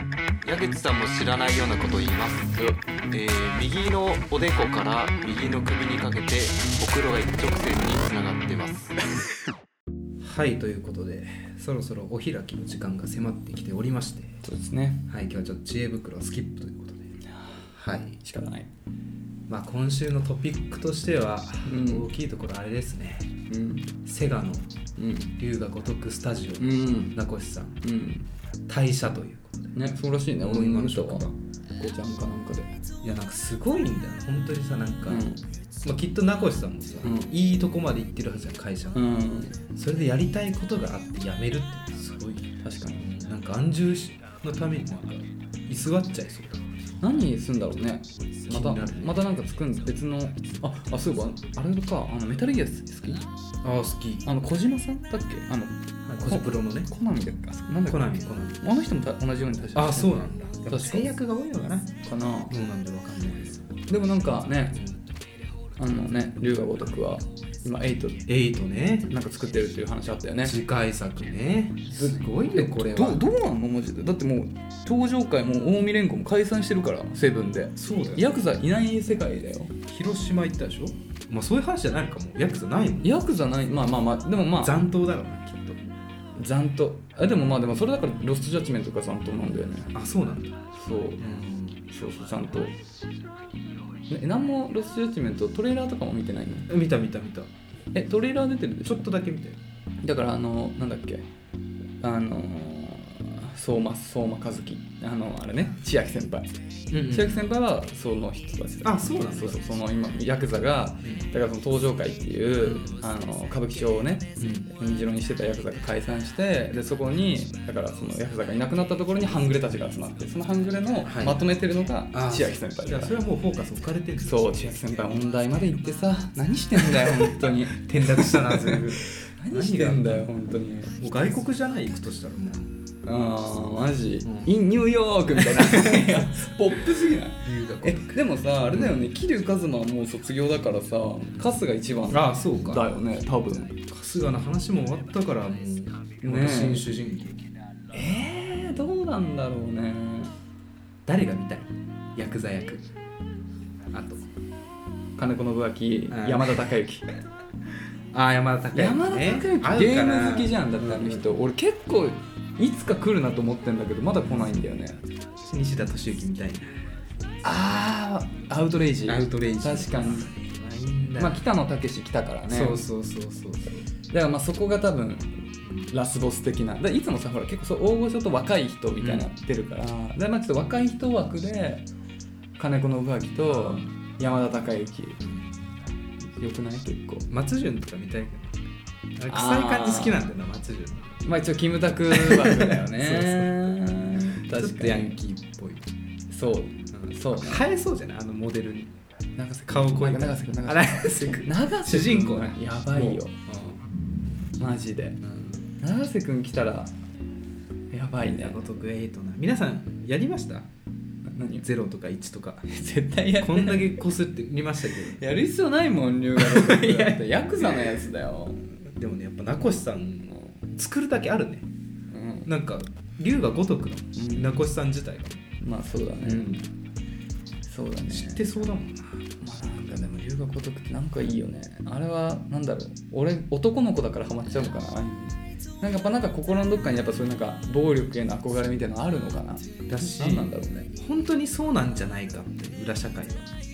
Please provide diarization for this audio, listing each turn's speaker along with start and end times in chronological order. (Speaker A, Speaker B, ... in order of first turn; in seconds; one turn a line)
Speaker A: 0.5-8.9
Speaker B: 0.5-4.6
Speaker B: 6.9-8.8
Speaker B: 10.2-14.4
Speaker C: 14.4-15.1
Speaker B: 15.1-17.1
Speaker C: 17.3-17.7
Speaker B: 17.7-18.2
Speaker C: 18.2-18.7
Speaker B: 19.5-23.3
Speaker C: 21.6-22.1
Speaker C: 23.5-23.9
Speaker B: 24.0-24.7
Speaker C: 25.0-25.3
Speaker B: 25.4-27.8
Speaker C: 26.6-27.2
Speaker C: 27.8-28.3
Speaker B: 28.7-29.7
Speaker C: 29.7-32.8
Speaker B: 30.4-31.3
Speaker B: 33.0-35.3
Speaker C: 35.0-35.4
Speaker B: 35.8-39.0
Speaker C: 37.0-37.3
Speaker C: 38.9-39.6
Speaker B: 39.7-46.6
Speaker C: 42.6-43.1
Speaker C: 47.0-53.2
Speaker B: 48.4-49.2
Speaker B: 53.6-54.2
Speaker C: 54.2-61.1
Speaker B: 56.0-56.9
Speaker B: 57.9-58.6
Speaker B: 59.7-62.0
Speaker C: 62.0-62.5
Speaker B: 62.5-63.7
Speaker C: 63.9-64.8
Speaker B: 64.7-65.0
Speaker C: 65.8-68.2
Speaker B: 68.3-69.1
Speaker C: 69.1-70.6
Speaker B: 70.4-73.2
Speaker C: 71.9-79.7
Speaker B: 77.8-78.4
Speaker B: 79.8-83.2
Speaker C: 83.0-84.8
Speaker B: 84.6-85.8
Speaker C: 86.3-89.9
Speaker B: 89.9-90.6
Speaker C: 90.7-92.8
Speaker B: 91.2-91.8
Speaker C: 94.1-96.7
Speaker B: 96.7-97.5
Speaker C: 97.9-99.1
Speaker B: 98.8-99.6
Speaker C: 100.0-101.2
Speaker C: 102.0-106.5
Speaker B: 106.9-107.5
Speaker C: 107.0-123.2
Speaker B: 108.8-109.6
Speaker B: 112.6-113.0
Speaker B: 114.4-114.7
Speaker B: 121.0-121.5
Speaker B: 122.1-124.9
Speaker C: 124.2-130.9
Speaker B: 126.8-130.3
Speaker B: 131.0-132.7
Speaker C: 133.0-143.8
Speaker B: 134.2-134.5
Speaker B: 135.4-136.3
Speaker B: 137.4-138.2
Speaker B: 138.7-139.1
Speaker B: 142.1-142.8
Speaker B: 143.8-147.4
Speaker C: 146.2-146.9
Speaker C: 147.9-150.3
Speaker B: 151.1-152.9
Speaker B: 153.9-154.2
Speaker C: 155.2-157.0
Speaker B: 156.1-156.6
Speaker B: 158.1-161.2
Speaker C: 158.7-165.0
Speaker B: 164.2-164.6
Speaker B: 165.4-166.8
Speaker C: 167.4-170.3
Speaker B: 169.1-171.4
Speaker C: 171.2-172.8
Speaker B: 172.5-173.8
Speaker C: 174.1-181.9
Speaker B: 175.6-175.9
Speaker B: 179.0-179.3
Speaker C: 182.6-185.2
Speaker B: 183.4-183.9
Speaker B: 185.2-185.5
Speaker C: 186.3-187.3
Speaker B: 187.3-188.5
Speaker B: 189.2-191.2
Speaker C: 189.3-190.2
Speaker C: 191.2-195.1
Speaker B: 192.1-193.6
Speaker B: 194.4-195.8
Speaker C: 196.3-197.7
Speaker B: 196.9-198.9
Speaker C: 199.4-203.4
Speaker B: 199.7-203.8
Speaker C: 204.6-205.2
Speaker B: 205.2-205.7
Speaker C: 205.8-206.9
Speaker C: 207.9-208.8
Speaker B: 208.2-210.7
Speaker C: 211.2-211.6
Speaker B: 211.6-212.7
Speaker C: 212.7-214.0
Speaker B: 213.4-215.2
Speaker C: 215.2-218.6
Speaker B: 216.3-218.0
Speaker B: 218.9-221.7
Speaker C: 222.1-222.5
Speaker B: 222.4-225.4
Speaker C: 224.2-224.5
Speaker C: 225.6-226.6
Speaker B: 226.2-226.7
Speaker C: 227.6-228.4
Speaker B: 228.1-229.4
Speaker C: 229.4-240.9
Speaker B: 239.9-243.5